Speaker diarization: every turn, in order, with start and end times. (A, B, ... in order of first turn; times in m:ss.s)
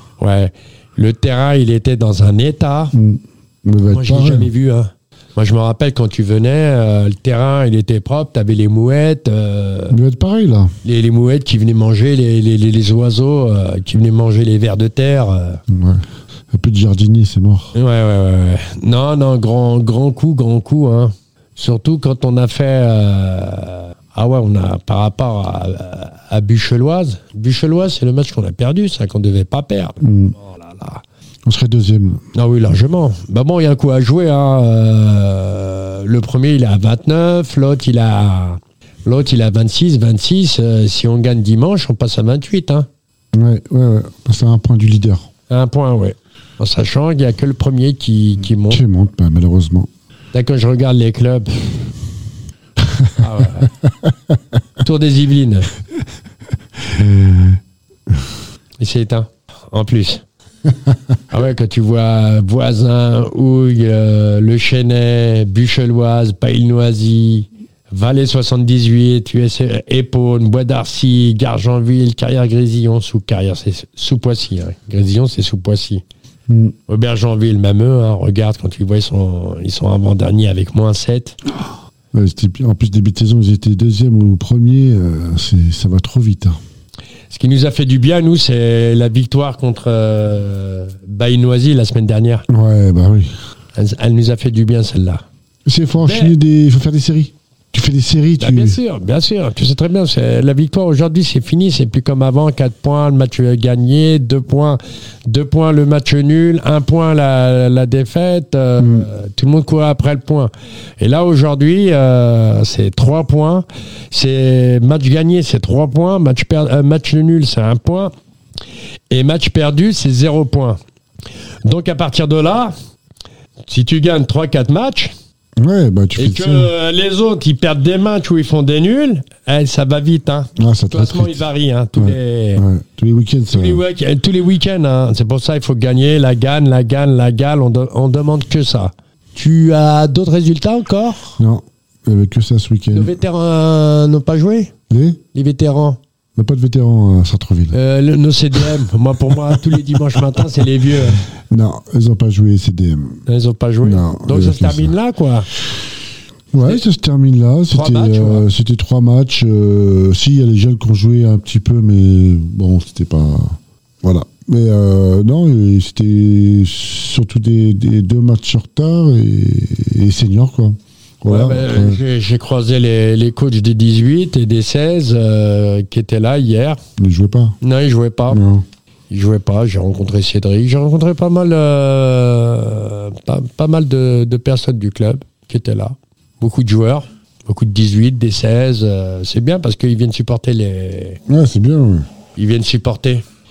0:00.2-0:02.9 A
0:02.9-0:04.5 B
0:03.9-0:10.0 A
0:09.9-0:10.7 B
0:10.8-0:15.6 A
0:15.7-0:17.7 B
0:17.7-0:31.0 A
0:30.0-0:30.4 B
0:31.5-0:32.2 B
0:32.3-0:42.9 A
0:43.3-0:45.3 B
0:45.5-0:48.8 A
0:48.7-0:49.9 B
0:50.3-0:51.8 A
0:52.8-0:53.1 B
0:53.2-0:53.7 A
0:54.8-0:55.7 A
0:56.8-0:57.6 B
0:58.8-1:00.2 A
1:01.3-1:16.0 A
1:16.5-1:16.7 B
1:16.9-1:21.4 A
1:22.1-1:26.6 B
1:27.3-1:32.4 A
1:32.5-1:33.3 B
1:33.8-1:35.2 A
1:35.7-1:38.8 B
1:36.0-1:36.4 A
1:38.4-1:58.1 A
1:48.8-1:49.1 B
1:59.1-2:00.8 A
2:01.6-2:02.8 A
2:03.7-2:05.1 A
2:05.6-2:06.7 B
2:06.2-2:12.6 A
2:10.6-2:11.4 B
2:12.0-2:13.8 B
2:13.5-2:21.4 A
2:21.4-2:23.1 B
2:22.9-2:24.7 A
2:24.9-2:25.2 B
2:25.3-2:26.0 A
2:26.4-2:27.8 B
2:27.7-2:31.2 A
2:31.3-2:33.2 B
2:33.3-2:35.5 A
2:33.8-2:34.9 B
2:36.5-2:52.0 B
2:37.7-2:38.5 A
2:51.3-2:56.8 A
2:57.0-2:57.6 B
2:57.6-2:58.4 A
2:58.3-2:58.6 B
2:59.1-3:11.2 A
3:11.3-3:12.1 B
3:12.4-3:13.2 A